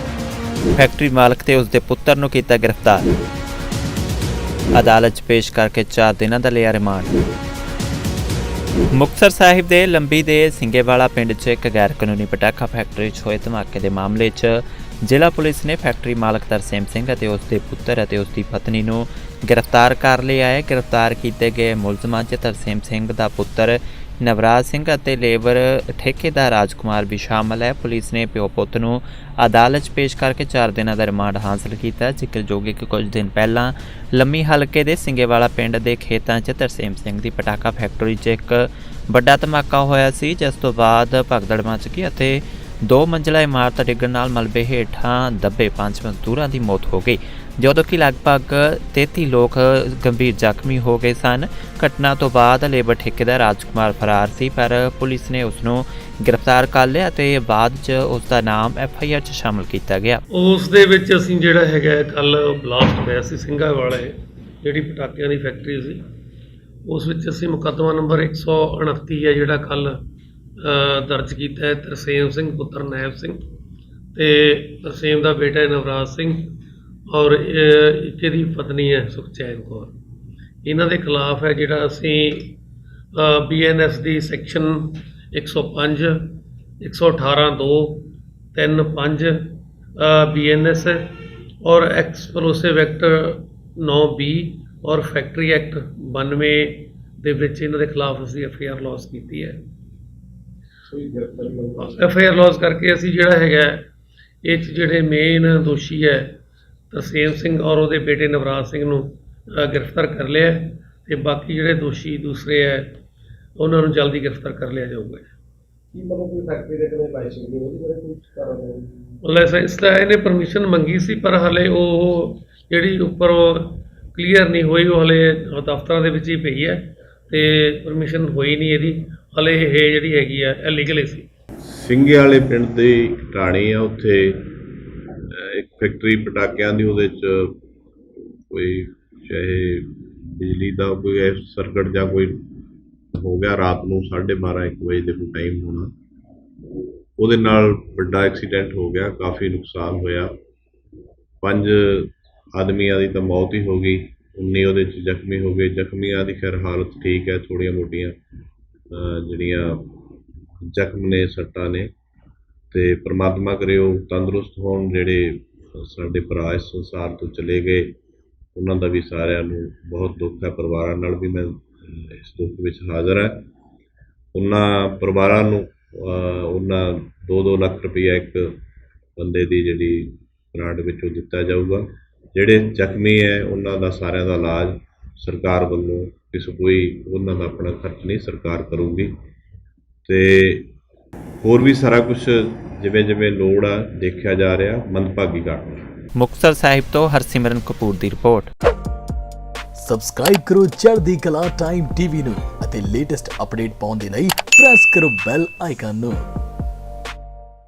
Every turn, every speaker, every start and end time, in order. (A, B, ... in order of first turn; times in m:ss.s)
0:00.8-0:03.1 A
0:04.7-0:07.2 A
0:08.9-1:00.2 A
1:00.4-1:06.0 B
1:06.9-1:10.0 B
1:10.6-1:13.4 B
1:14.2-1:20.0 B
1:20.6-1:22.6 B
1:23.2-1:39.6 B
1:40.9-1:42.1 C
1:41.8-1:43.9 B
1:44.4-1:46.4 B
1:46.9-1:53.0 B
1:53.6-1:55.3 B
1:55.9-1:59.2 C
1:59.2-2:11.3 B
2:11.7-2:14.6 D
2:15.3-2:17.6 D
2:18.5-2:22.4 D
2:23.2-2:25.9 D
2:27.2-2:30.3 D
2:31.4-2:38.2 D
2:38.9-2:40.0 D
2:40.7-2:41.9 D
2:42.7-2:48.0 D
2:48.6-2:53.5 D
2:54.3-2:58.6 D
2:59.2-3:09.1 D
3:10.0-3:10.7 D
3:11.4-3:15.8 D
3:16.2-3:18.5 A
3:19.8-3:26.3 E